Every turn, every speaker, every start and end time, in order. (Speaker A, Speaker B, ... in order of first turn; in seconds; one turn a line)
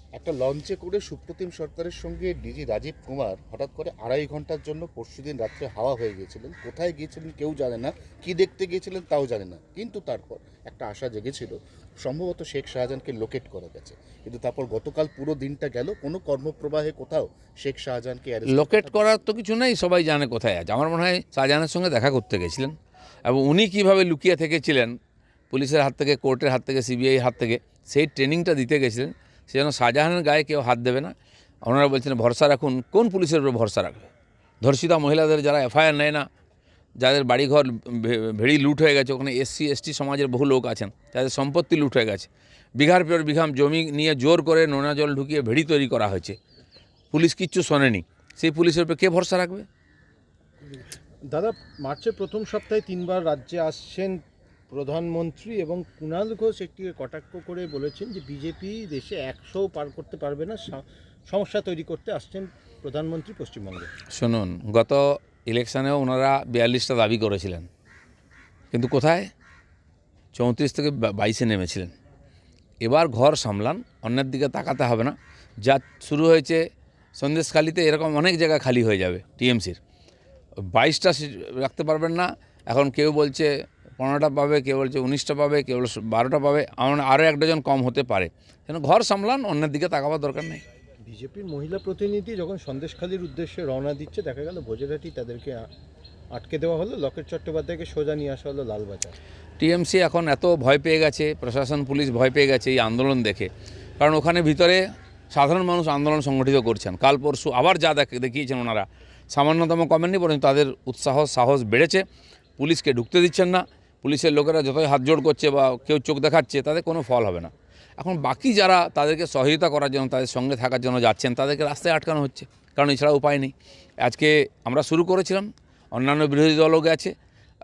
Speaker A: 0.2-19.1
Speaker B: 18.5-22.7
Speaker B: 23.3-25.0
Speaker B: 25.5-31.1
Speaker B: 31.6-34.1
Speaker B: 34.6-36.3
Speaker B: 37.0-46.4
Speaker B: 47.1-49.7
Speaker C: 50.7-63.9
Speaker B: 64.1-67.7
Speaker B: 68.7-69.3
Speaker B: 70.3-71.9
Speaker B: 72.8-76.6
Speaker B: 77.2-79.8
Speaker B: 80.6-90.6
Speaker C: 91.0-95.7
Speaker C: 96.3-99.2
Speaker B: 99.6-112.0
Speaker B: 112.6-127.1